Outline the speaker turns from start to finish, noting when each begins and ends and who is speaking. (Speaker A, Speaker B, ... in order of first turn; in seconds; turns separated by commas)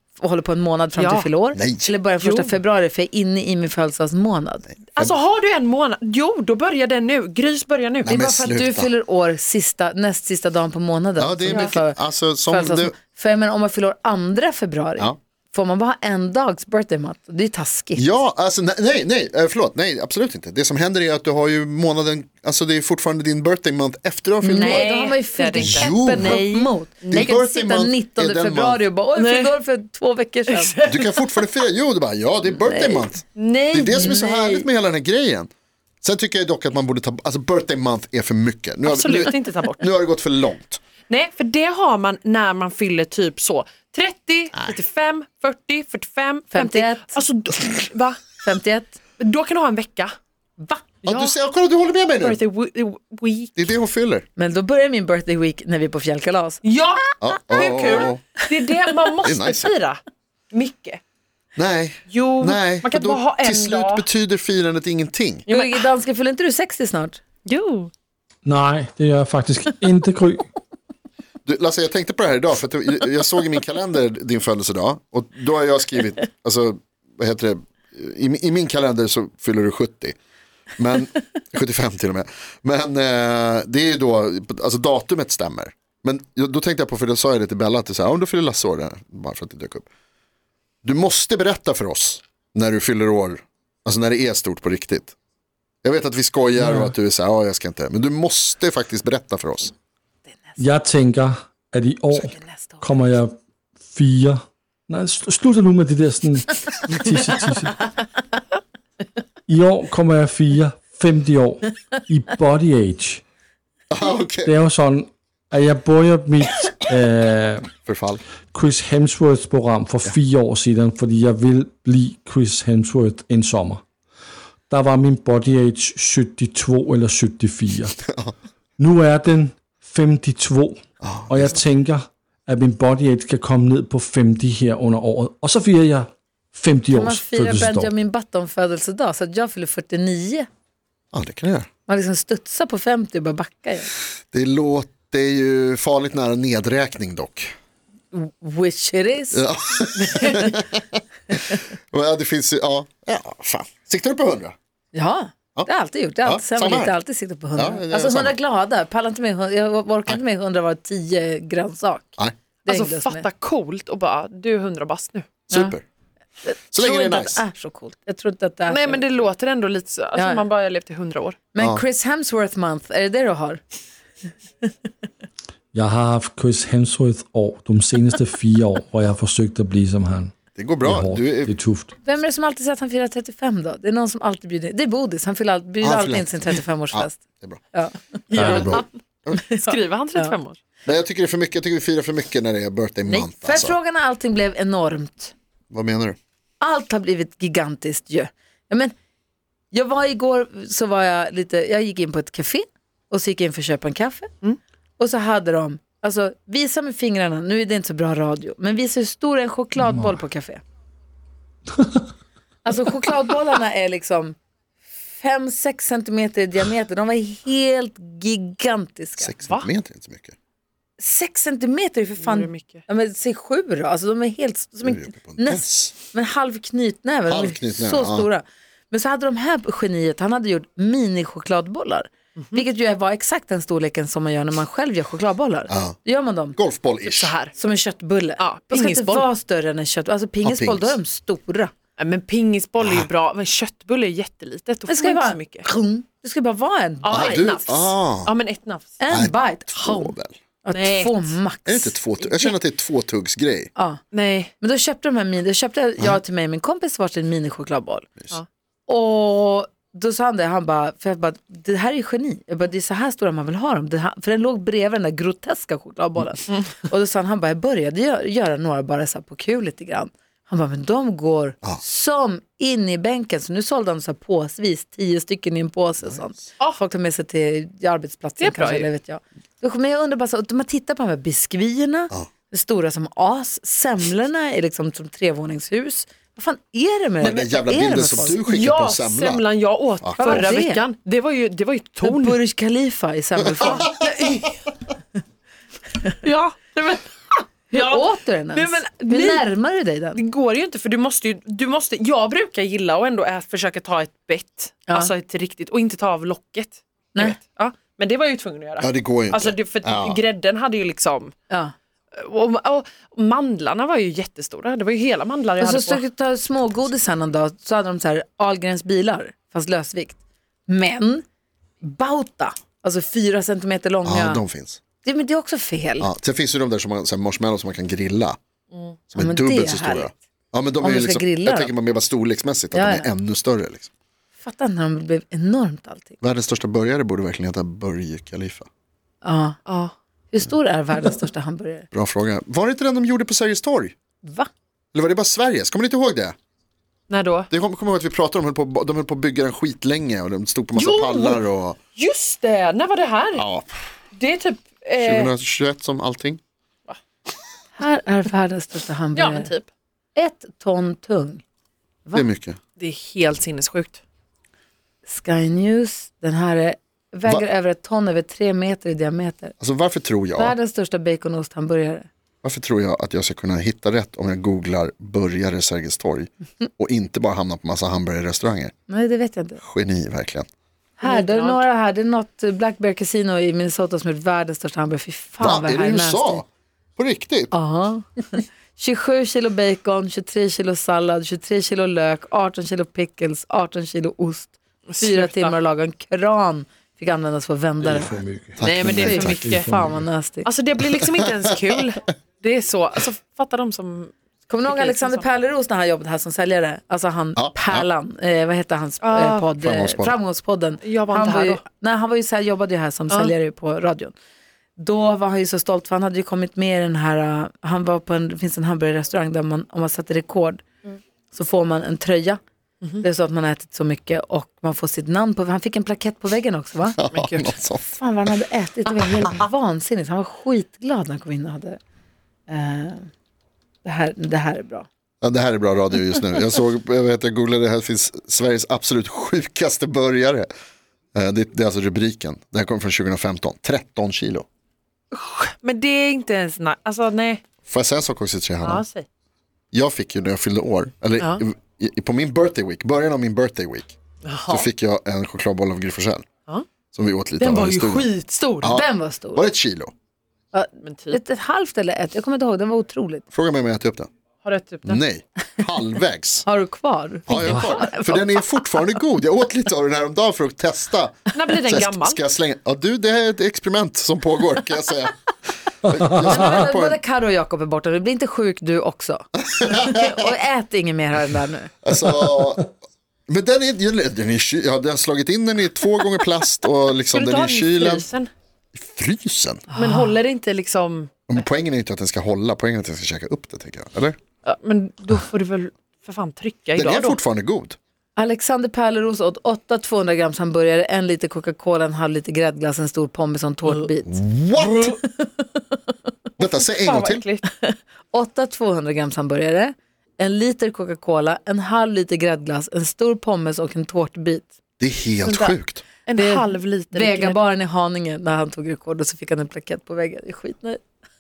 Speaker A: 0.2-4.7, Speaker B: 1.0-1.3, Speaker C: 1.6-1.9, Speaker B: 2.2-2.6, Speaker B: 4.9-8.1, Speaker C: 8.0-8.9, Speaker A: 8.1-18.2, Speaker C: 11.2-12.9, Speaker C: 18.0-24.9, Speaker A: 24.4-30.7, Speaker B: 24.6-27.4, Speaker C: 25.6-26.4, Speaker C: 27.1-28.9, Speaker B: 29.2-29.5, Speaker B: 30.5-31.4, Speaker C: 30.9-35.5, Speaker A: 32.5-33.1, Speaker B: 33.4-34.6, Speaker A: 33.9-34.2, Speaker C: 36.0-40.8, Speaker B: 38.9-39.9, Speaker B: 41.1-48.2, Speaker A: 46.5-47.2, Speaker A: 48.4-49.0, Speaker B: 49.2-50.1, Speaker B: 50.7-51.3, Speaker C: 51.0-52.4, Speaker B: 52.2-53.6, Speaker C: 53.6-54.3, Speaker A: 54.4-56.6, Speaker B: 56.6-60.0, Speaker C: 57.2-58.2, Speaker A: 57.5-58.1, Speaker C: 59.2-59.7, Speaker B: 60.5-61.0, Speaker C: 61.6-65.5, Speaker B: 62.1-64.1, Speaker B: 65.5-65.8, Speaker A: 65.5-67.2, Speaker B: 67.5-67.9, Speaker D: 68.5-70.5, Speaker C: 71.5-80.2, Speaker C: 80.8-89.9, Speaker C: 90.8-95.1, Speaker C: 95.8-99.7, Speaker D: 96.6-96.9, Speaker A: 100.3-100.5, Speaker D: 100.6-107.9, Speaker A: 102.2-103.0, Speaker D: 109.5-113.2, Speaker C: 113.9-114.5, Speaker D: 114.4-117.7, Speaker C: 117.8-118.2, Speaker D: 118.5-123.8, Speaker D: 124.7-128.0, Speaker C: 128.0-128.3, Speaker D: 128.8-137.9, Speaker C: 131.0-131.6, Speaker A: 136.9-140.5, Speaker C: 141.1-141.7, Speaker A: 141.9-143.9, Speaker C: 144.3-147.5, Speaker A: 148.1-150.7, Speaker C: 149.3-151.3, Speaker C: 151.9-154.6, Speaker A: 154.9-163.3, Speaker C: 156.2-156.9, Speaker C: 157.6-158.4, Speaker B: 162.7-165.5, Speaker C: 165.5-165.8, Speaker A: 166.4-169.0, Speaker C: 166.7-167.4, Speaker B: 168.7-171.4, Speaker A: 170.2-170.4, Speaker A: 171.5-173.6, Speaker C: 171.6-171.8, Speaker D: 175.7-181.9, Speaker C: 180.6-181.5, Speaker A: 182.0-187.2, Speaker C: 185.8-187.6, Speaker A: 187.7-188.8, Speaker B: 188.3-188.9, Speaker D: 188.4-188.7, Speaker C: 188.4-189.4, Speaker A: 189.3-190.3, Speaker B: 189.5-190.6, Speaker C: 190.8-193.8, Speaker A: 193.1-195.3, Speaker C: 195.7-196.2, Speaker A: 196.6-198.9, Speaker A: 199.7-204.3, Speaker A: 205.0-210.6, Speaker D: 209.8-210.1, Speaker A: 212.6-214.4, Speaker A: 215.2-219.3, Speaker C: 219.2-220.3, Speaker A: 221.0-236.6, Speaker B: 222.2-222.8, Speaker C: 224.8-225.9, Speaker C: 227.3-228.3, Speaker C: 235.7-236.0, Speaker C: 236.6-237.3, Speaker B: 237.0-237.5, Speaker A: 237.6-241.7, Speaker B: 238.4-239.3, Speaker C: 240.4-241.0, Speaker B: 242.0-245.7, Speaker C: 242.8-243.1, Speaker A: 244.9-247.6, Speaker B: 247.0-248.9, Speaker C: 247.1-248.3, Speaker A: 249.0-252.0, Speaker C: 249.1-250.3, Speaker B: 250.7-251.3, Speaker C: 251.7-253.7, Speaker A: 253.8-254.0, Speaker B: 254.1-254.5, Speaker A: 254.6-258.1, Speaker A: 258.9-288.4, Speaker B: 266.5-266.8, Speaker B: 278.4-278.9, Speaker C: 287.2-289.4, Speaker B: 288.2-292.4, Speaker C: 290.0-290.5, Speaker A: 290.2-290.8, Speaker A: 292.0-294.0, Speaker C: 293.4-293.9, Speaker B: 293.6-294.6, Speaker B: 296.2-299.5, Speaker A: 297.7-300.2, Speaker B: 300.2-311.3, Speaker C: 308.8-310.2, Speaker B: 312.1-316.0, Speaker A: 315.6-321.2, Speaker A: 321.8-324.4, Speaker C: 324.1-324.8, Speaker A: 325.0-326.1, Speaker C: 326.0-328.4, Speaker B: 328.7-329.0, Speaker C: 329.1-333.9, Speaker A: 329.1-330.1, Speaker A: 330.8-331.7, Speaker A: 332.7-333.1, Speaker A: 334.4-336.2, Speaker C: 336.2-338.7, Speaker A: 339.2-339.6, Speaker B: 339.7-339.9, Speaker A: 340.3-341.9, Speaker C: 341.9-343.9, Speaker C: 344.9-346.4, Speaker B: 347.1-347.5, Speaker C: 347.5-351.8, Speaker B: 350.8-351.4, Speaker B: 352.0-353.4, Speaker C: 353.4-353.7, Speaker B: 354.1-355.3, Speaker C: 355.0-356.4, Speaker A: 357.8-359.5, Speaker B: 359.1-359.7, Speaker A: 360.1-361.4, Speaker C: 362.1-362.6, Speaker B: 362.8-364.0, Speaker A: 365.1-369.6, Speaker C: 369.6-370.6, Speaker A: 370.4-372.1, Speaker C: 372.4-378.7, Speaker A: 378.9-379.6, Speaker C: 379.6-380.5, Speaker A: 381.0-386.4, Speaker B: 381.0-381.6, Speaker C: 385.4-387.5, Speaker A: 387.5-398.2, Speaker B: 394.9-395.6, Speaker D: 397.8-400.1, Speaker C: 398.6-399.4, Speaker B: 398.6-399.7, Speaker A: 398.9-400.5, Speaker B: 400.4-404.1, Speaker A: 404.5-414.1, Speaker B: 404.7-405.2, Speaker C: 407.4-407.9, Speaker B: 409.0-409.5, Speaker C: 409.6-410.1, Speaker B: 410.8-411.6, Speaker A: 414.8-420.6, Speaker A: 421.3-422.4, Speaker A: 423.0-427.0, Speaker C: 426.9-428.0, Speaker B: 427.1-427.6, Speaker A: 427.9-431.8, Speaker A: 432.5-433.1, Speaker A: 433.8-434.9, Speaker C: 435.2-440.5, Speaker C: 441.1-444.5, Speaker B: 445.1-447.4, Speaker C: 447.7-448.8, Speaker B: 448.6-449.1, Speaker C: 449.7-453.9, Speaker B: 454.2-454.7, Speaker C: 454.5-456.3, Speaker C: 456.9-458.1, Speaker B: 457.4-458.7, Speaker C: 458.6-459.9, Speaker A: 458.6-459.5, Speaker A: 460.5-463.3, Speaker B: 460.8-461.2, Speaker C: 463.3-464.1, Speaker B: 464.4-465.0, Speaker C: 464.9-466.5, Speaker A: 466.4-468.4, Speaker C: 467.3-475.1, Speaker B: 471.3-472.2, Speaker C: 475.8-477.0, Speaker A: 476.2-481.8, Speaker C: 479.5-480.2, Speaker C: 481.8-482.7, Speaker C: 483.3-488.1, Speaker B: 487.1-488.3, Speaker C: 488.8-489.6, Speaker A: 489.7-490.1, Speaker B: 489.8-491.1, Speaker C: 491.3-494.2, Speaker B: 494.4-497.2, Speaker C: 496.8-497.8, Speaker A: 498.2-504.2, Speaker C: 504.1-505.0, Speaker B: 504.6-505.0, Speaker A: 505.1-505.6, Speaker C: 506.4-507.2, Speaker B: 506.5-507.4, Speaker A: 507.6-514.5, Speaker C: 514.8-515.9, Speaker B: 515.2-517.4, Speaker A: 516.2-520.8